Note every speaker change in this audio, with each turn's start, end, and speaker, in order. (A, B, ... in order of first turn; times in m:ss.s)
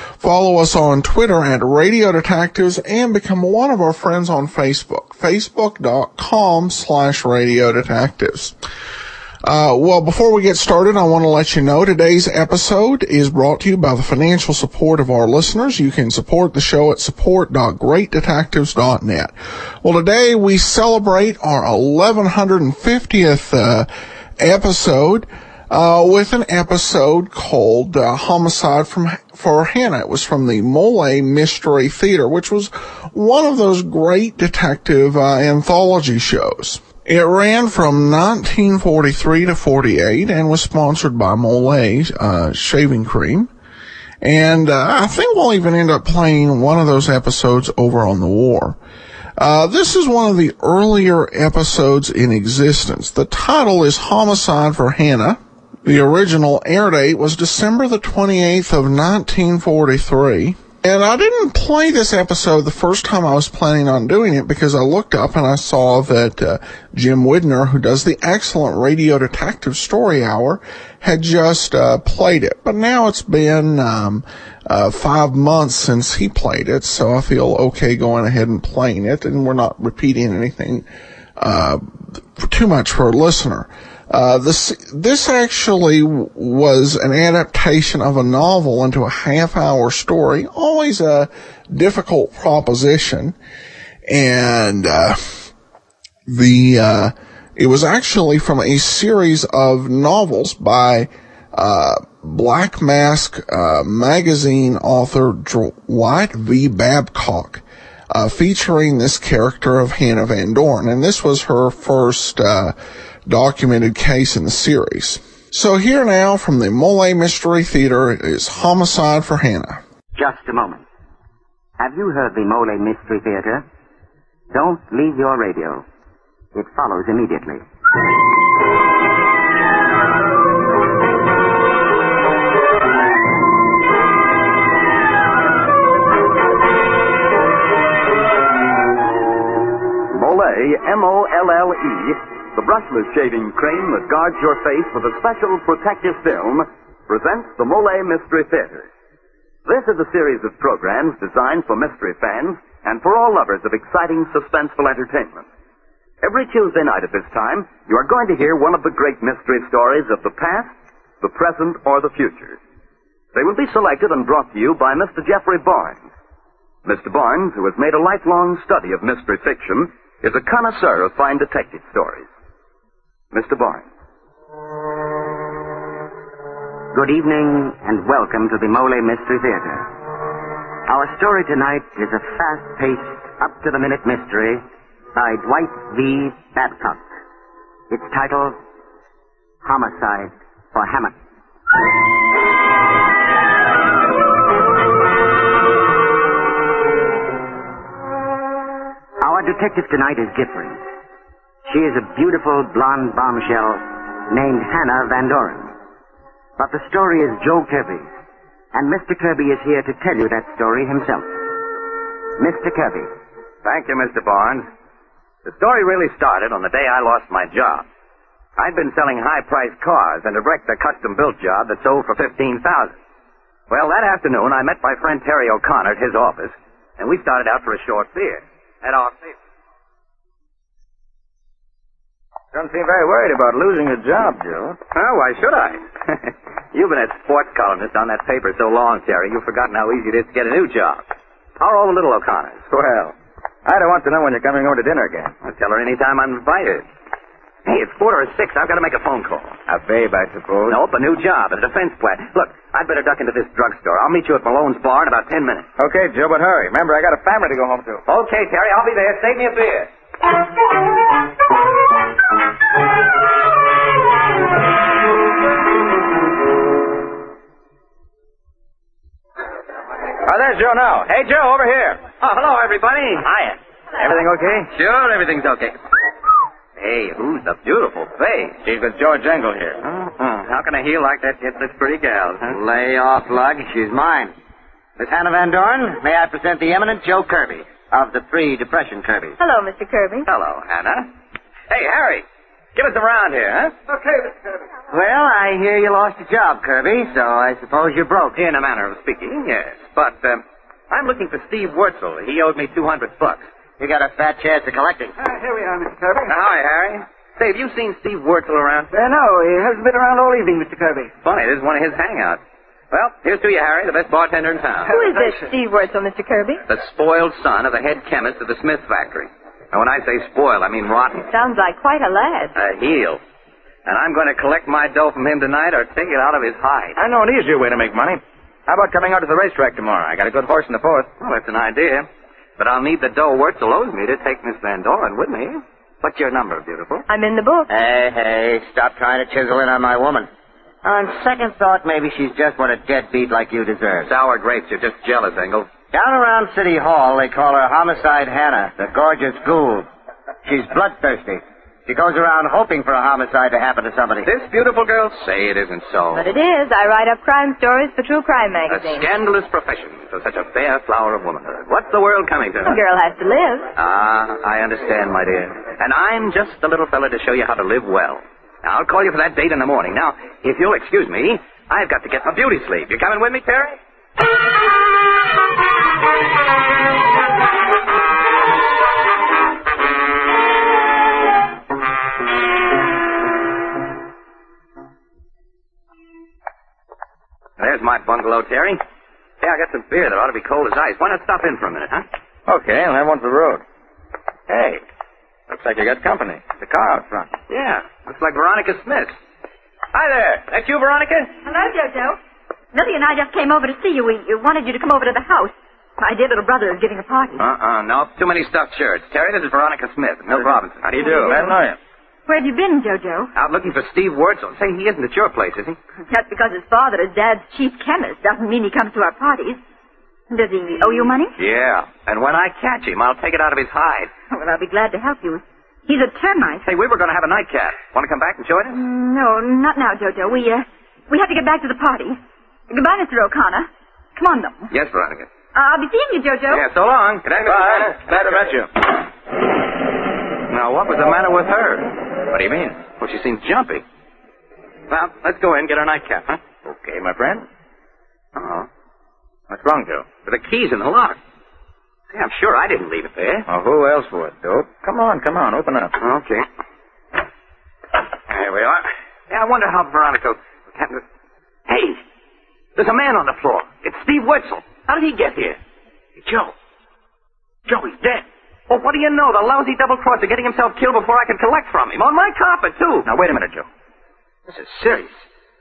0:00.2-0:08.5 A
0:09.4-0:43.5 A
0:44.2-0:48.8 A
0:49.4-1:20.8 A
1:21.4-1:33.3 A
1:34.1-1:35.5 A
1:36.3-1:52.8 A
1:53.3-1:59.8 A
2:00.1-2:00.9 B
2:01.8-2:03.6 B
2:04.5-2:05.9 B
2:06.5-2:07.6 B
2:20.1-2:28.9 C
2:29.6-2:35.5 C
2:36.2-2:42.6 C
2:43.3-2:46.1 C
2:46.8-2:52.3 C
2:53.3-2:53.8 C
2:56.9-2:59.9 B
3:00.9-3:07.1 B
3:07.9-3:08.6 B
3:09.6-3:11.1 B
3:19.2-3:20.8 B
3:21.7-3:25.7 B
3:26.6-3:28.2 B
3:28.7-3:31.4 B
3:32.4-3:33.1 B
3:33.6-3:34.7 D
3:35.4-3:37.8 D
3:38.6-3:43.0 D
3:43.7-3:49.4 D
3:52.5-3:54.8 E
3:54.9-4:01.0 D
4:01.6-4:02.6 D
4:02.7-4:03.1 E
4:03.6-4:05.3 E
4:05.4-4:06.8 D
4:07.7-4:09.6 D
4:09.7-4:10.8 E
4:10.7-4:15.7 D
4:15.8-4:18.0 E
4:18.1-4:19.9 D
4:30.2-4:32.1 E
4:32.2-4:33.2 D
4:33.2-4:34.7 E
4:34.0-4:35.8 D
4:36.8-4:38.6 D
4:38.6-4:39.9 E
4:39.9-4:42.6 D
4:42.5-4:44.3 F
4:45.0-4:49.4 F
4:49.4-4:50.3 G
4:50.2-4:51.1 D
4:51.7-4:53.8 D
4:53.9-4:54.3 H
4:54.9-4:58.4 F
4:58.4-5:03.4 D
5:03.8-5:05.1 F
5:05.2-5:06.3 H
5:06.2-5:08.9 D
5:08.9-5:11.1 H
5:11.2-5:14.9 D
5:14.9-5:16.6 G
5:16.7-5:21.2 D
5:21.3-5:22.5 G
5:22.6-5:23.2 D
5:23.9-5:27.0 D
5:27.0-5:31.1 E
5:31.2-5:37.1 D
5:37.1-5:37.7 G
5:37.7-5:40.3 F
5:40.8-5:44.1 F
5:44.0-5:45.7 D
5:45.9-5:49.9 F
5:50.4-5:54.3 F
5:54.2-5:56.2 D
5:56.1-5:59.1 G
5:58.7-6:02.8 D
6:02.6-6:03.7 G
6:03.8-6:13.8 D
6:27.6-6:28.8 D
6:29.4-6:32.1 D
6:32.5-6:33.6 E
6:34.5-6:34.8 E
6:35.5-6:37.3 E
6:37.5-6:39.2 D
6:39.9-6:41.3 D
6:41.4-6:42.2 I
6:42.7-6:47.4 I
6:47.4-6:51.6 D
6:50.4-6:51.8 E
6:51.0-6:51.4 I
6:52.2-6:53.3 I
6:53.4-6:55.8 D
6:56.1-6:59.6 I
7:00.3-7:01.4 I
7:01.4-7:04.1 D
7:04.3-7:06.7 I
7:06.6-7:08.8 D
7:08.7-7:14.7 I
7:14.7-7:15.3 D
7:15.5-7:16.7 I
7:16.5-7:18.4 D
7:17.4-7:18.7 E
7:20.5-7:21.9 D
7:22.3-7:22.9 E
7:23.0-7:23.8 D
7:24.9-7:26.4 D
7:26.6-7:27.4 E
7:28.4-7:28.7 D
7:29.5-7:30.1 E
7:30.2-7:31.2 D
7:32.1-7:33.4 D
7:33.5-7:35.9 E
7:36.0-7:36.4 D
7:38.3-7:41.0 D
7:41.7-7:42.0 D
7:42.8-7:45.6 D
7:46.2-7:46.5 E
7:47.7-7:48.2 E
7:48.7-7:53.1 D
7:53.0-7:53.7 E
7:54.6-7:55.1 E